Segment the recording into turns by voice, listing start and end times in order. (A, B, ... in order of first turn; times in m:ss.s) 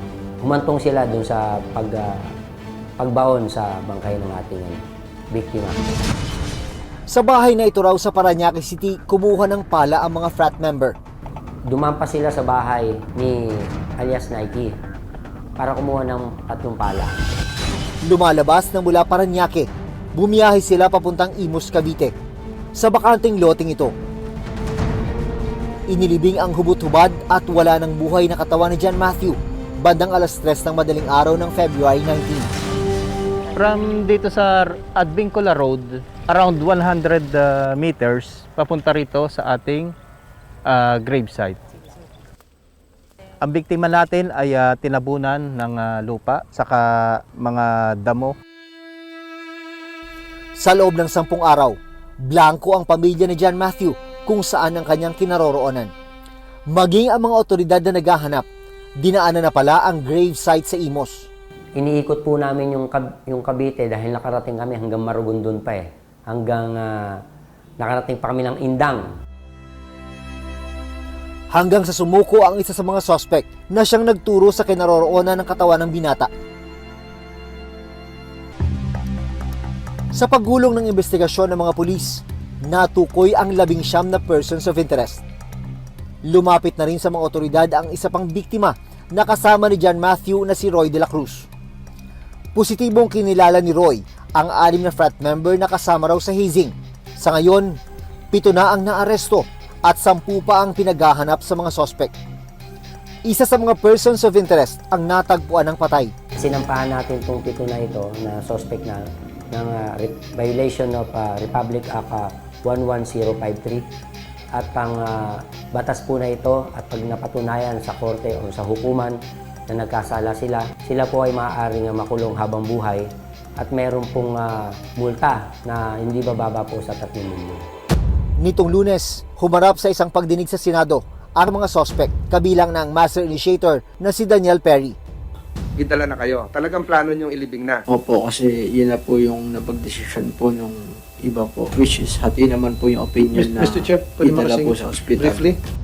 0:00.4-0:02.2 A
0:03.0-0:05.8 A
0:07.1-0:11.0 B
0:11.7-0:14.7 A
0:15.6-0:17.2 A
0:18.0-0:22.1 B
0:22.7-0:23.9 B
0:25.9-0:32.5 B
0:33.5-0:39.9 C
0:40.6-0:41.6 C
0:43.4-0:48.3 C
0:50.6-0:55.9 B
0:56.7-0:58.4 B
0:59.0-1:01.3 B
1:01.8-1:07.2 A
1:07.8-1:09.1 A
1:11.5-1:16.3 B
1:20.1-1:25.2 B
1:26.2-1:31.5 B
1:32.5-1:37.8 B
1:38.3-1:42.1 B
1:43.2-1:46.1 B
1:46.4-1:53.8 A
1:54.5-1:59.2 A
1:59.7-2:07.6 A
2:08.4-2:15.0 B
2:15.8-2:17.8 D
2:17.9-2:25.5 E
2:23.4-2:25.5 D